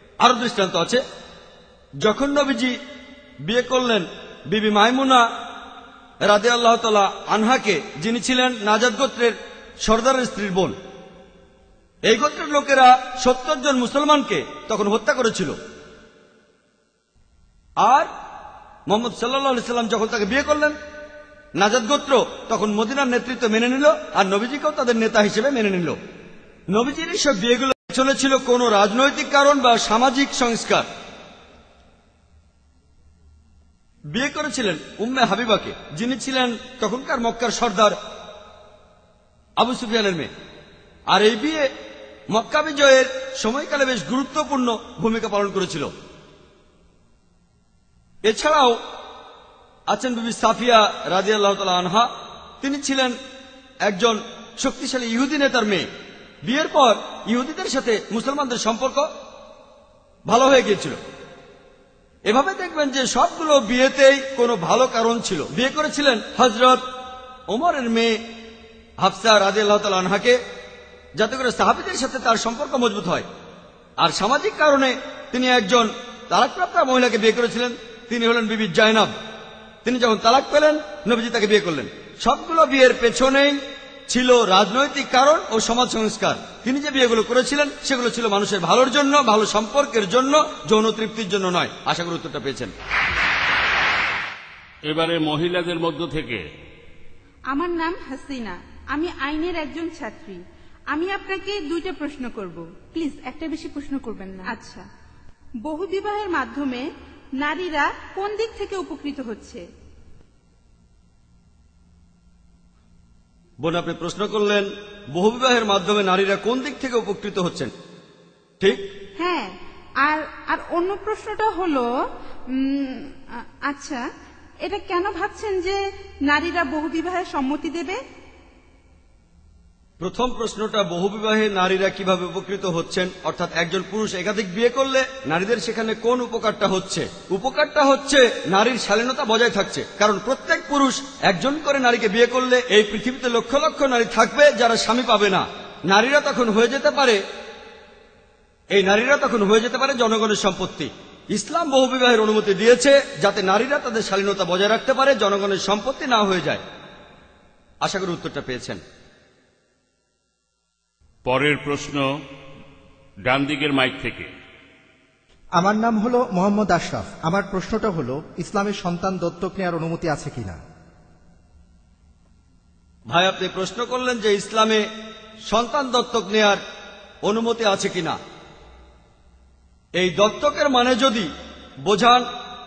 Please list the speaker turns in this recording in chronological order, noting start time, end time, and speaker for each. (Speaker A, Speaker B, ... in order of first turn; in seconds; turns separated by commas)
Speaker A: 0.2-1.0, Speaker A: 2.0-2.8, Speaker A: 3.4-5.2, Speaker A: 6.2-10.8, Speaker A: 12.1-15.6, Speaker A: 17.8-18.1, Speaker A: 18.9-20.8, Speaker A: 21.6-26.0, Speaker A: 26.7-30.9, Speaker A: 34.1-38.0, Speaker A: 39.6-40.3, Speaker A: 41.1-41.7, Speaker A: 42.3-45.9, Speaker A: 48.2-48.8, Speaker A: 49.9-52.1, Speaker A: 52.6-53.2, Speaker A: 53.8-55.9, Speaker A: 56.4-59.1, Speaker A: 60.3-61.0, Speaker A: 62.3-66.8, Speaker A: 67.5-68.2, Speaker A: 69.0-70.4, Speaker A: 71.2-73.3, Speaker A: 74.0-79.1, Speaker A: 79.8-92.7, Speaker B: 94.9-96.4, Speaker C: 97.5-104.8, Speaker C: 105.6-109.6, Speaker A: 113.6-117.7, Speaker A: 118.6-118.9, Speaker C: 119.2-121.9, Speaker C: 122.5-124.0, Speaker C: 124.6-128.0, Speaker A: 130.0-147.2, Speaker A: 148.7-156.6, Speaker A: 157.8-158.8, Speaker B: 161.2-162.1, Speaker B: 163.2-164.3, Speaker D: 165.6-170.6, Speaker A: 173.1-174.8, Speaker A: 175.5-176.6, Speaker A: 177.2-178.2, Speaker A: 180.0-181.3, Speaker A: 181.8-182.2